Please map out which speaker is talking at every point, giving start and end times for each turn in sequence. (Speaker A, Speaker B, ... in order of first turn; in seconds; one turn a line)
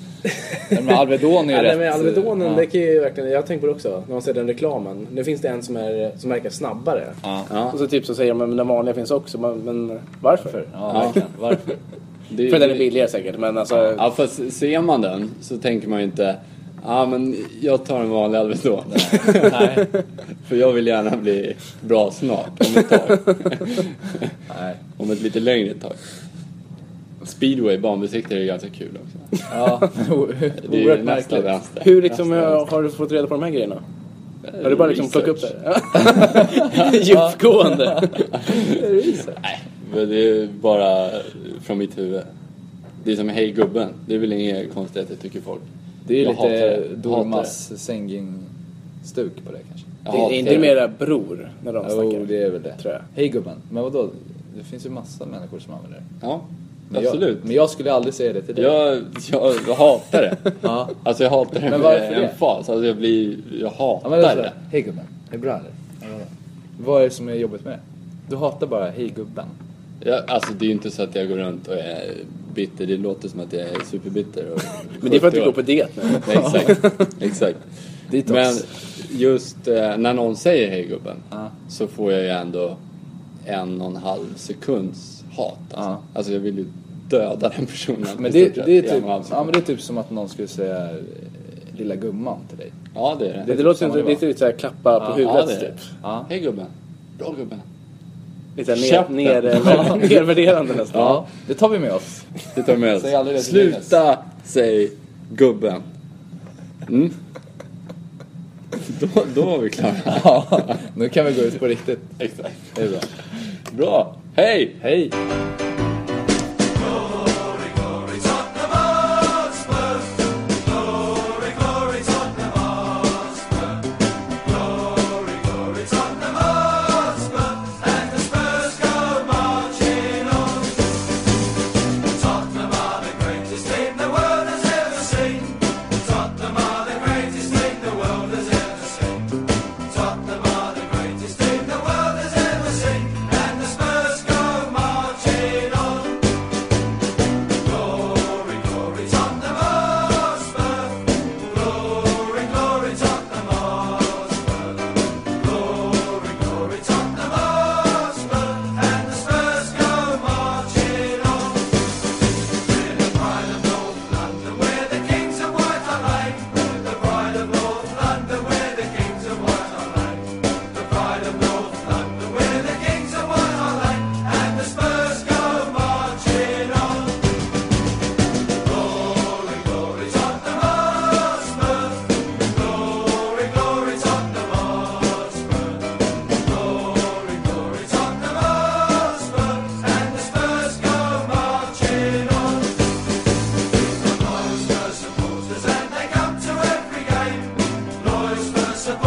Speaker A: 0.7-2.6
Speaker B: 1.5-10.5
Speaker C: 7.5-7.8
Speaker A: 10.4-11.8
Speaker C: 12.3-12.8
Speaker B: 12.5-14.0
Speaker C: 14.0-19.9
Speaker A: 18.9-19.9
Speaker C: 20.4-24.2
Speaker A: 24.5-24.8
Speaker C: 25.0-26.0
Speaker C: 27.2-29.4
Speaker A: 29.5-31.5
Speaker C: 30.6-32.6
Speaker B: 31.8-33.8
Speaker C: 34.5-35.5
Speaker B: 34.6-39.3
Speaker A: 38.8-39.6
Speaker C: 39.8-42.3
Speaker C: 43.0-45.7
Speaker A: 46.0-48.5
Speaker C: 46.2-47.5
Speaker A: 49.0-49.9
Speaker C: 50.0-50.8
Speaker B: 50.1-52.3
Speaker A: 51.8-56.1
Speaker B: 52.8-53.0
Speaker C: 56.2-57.5
Speaker A: 56.9-58.8
Speaker C: 58.6-64.5
Speaker A: 60.6-60.9
Speaker A: 61.7-62.4
Speaker A: 64.0-69.5
Speaker C: 70.0-77.6
Speaker B: 75.0-77.0
Speaker A: 78.1-78.6
Speaker C: 78.2-82.8
Speaker C: 83.5-89.5
Speaker A: 88.2-92.7
Speaker C: 93.0-93.5
Speaker A: 93.4-94.2
Speaker B: 93.5-95.8
Speaker C: 95.2-95.7
Speaker A: 96.0-96.3
Speaker C: 96.3-97.7
Speaker B: 98.6-101.2
Speaker C: 98.7-100.2
Speaker A: 100.9-102.3
Speaker C: 102.5-105.9
Speaker A: 103.0-104.0
Speaker C: 106.9-107.2
Speaker C: 108.8-110.8
Speaker A: 110.1-112.1
Speaker C: 112.2-112.9
Speaker A: 112.8-113.1
Speaker C: 113.7-114.8
Speaker A: 114.8-115.2